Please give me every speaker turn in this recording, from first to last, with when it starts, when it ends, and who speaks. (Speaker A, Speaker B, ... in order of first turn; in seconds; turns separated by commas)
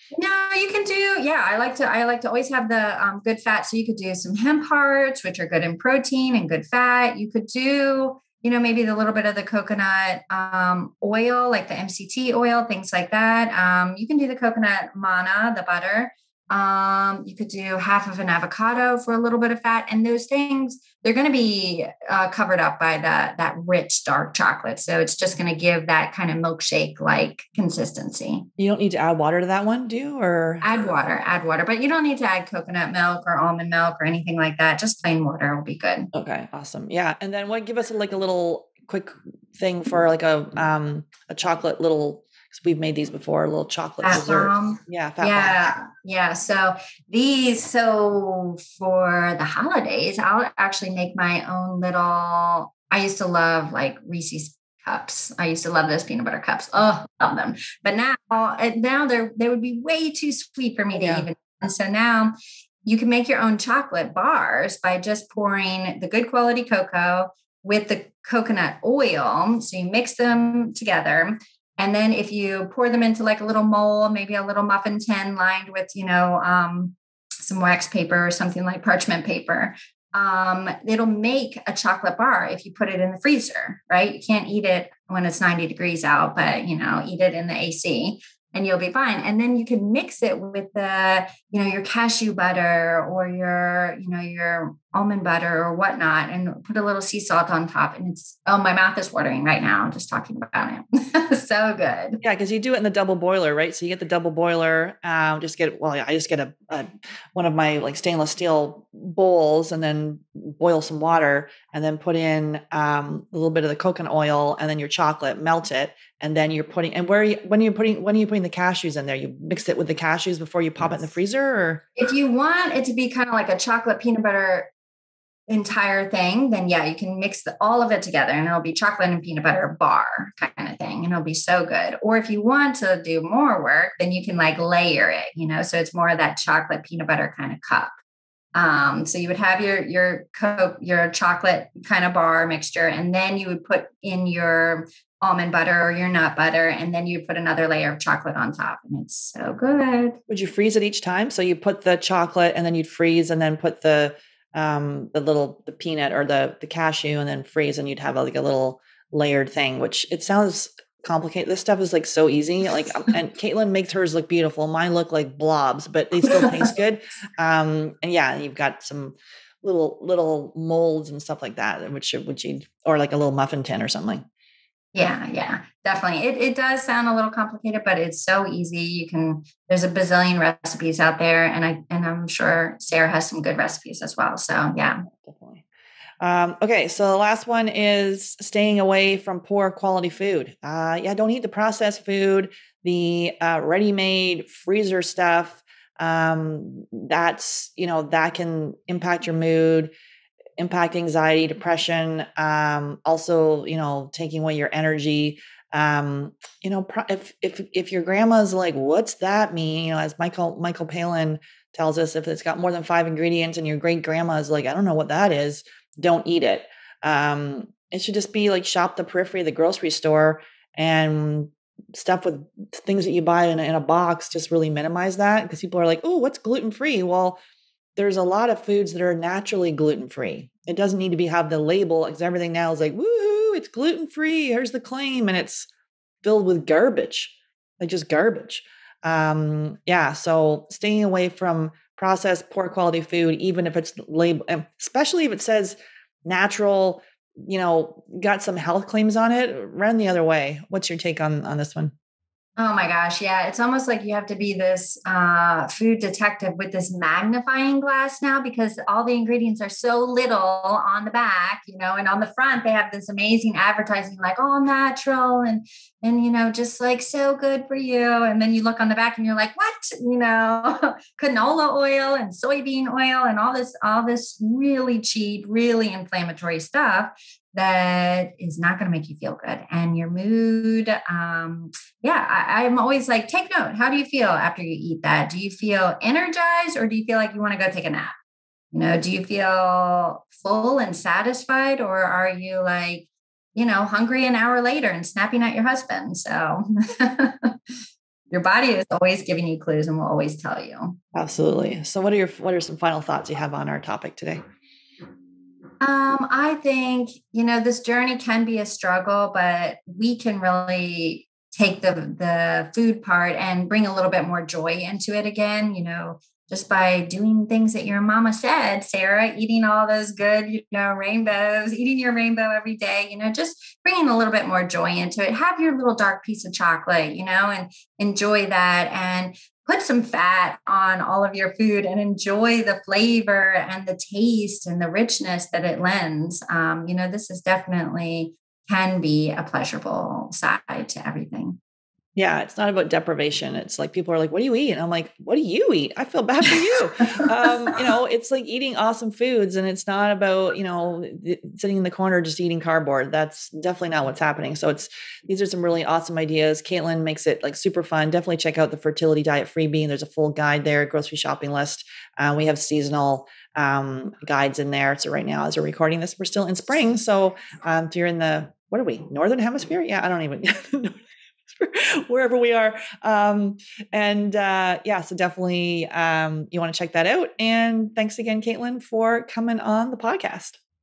Speaker A: 0.1-28.5, Speaker B: 28.6-30.8, Speaker A: 30.6-36.1, Speaker B: 36.1-45.6, Speaker A: 44.0-62.3, Speaker B: 61.0-61.3, Speaker A: 62.9-102.2, Speaker B: 102.2-121.9, Speaker A: 122.0-124.7, Speaker A: 125.5-137.9, Speaker A: 138.6-150.2, Speaker B: 150.3-174.2, Speaker A: 166.2-166.7, Speaker A: 174.9-185.0, Speaker B: 185.1-185.6, Speaker B: 186.2-199.9, Speaker B: 200.6-227.4, Speaker B: 228.0-235.7, Speaker B: 236.2-251.9, Speaker A: 252.6-288.1, Speaker A: 288.7-297.6, Speaker A: 298.3-301.0, Speaker B: 301.1-304.4, Speaker A: 305.8-341.6, Speaker B: 342.2-371.0, Speaker B: 371.5-380.6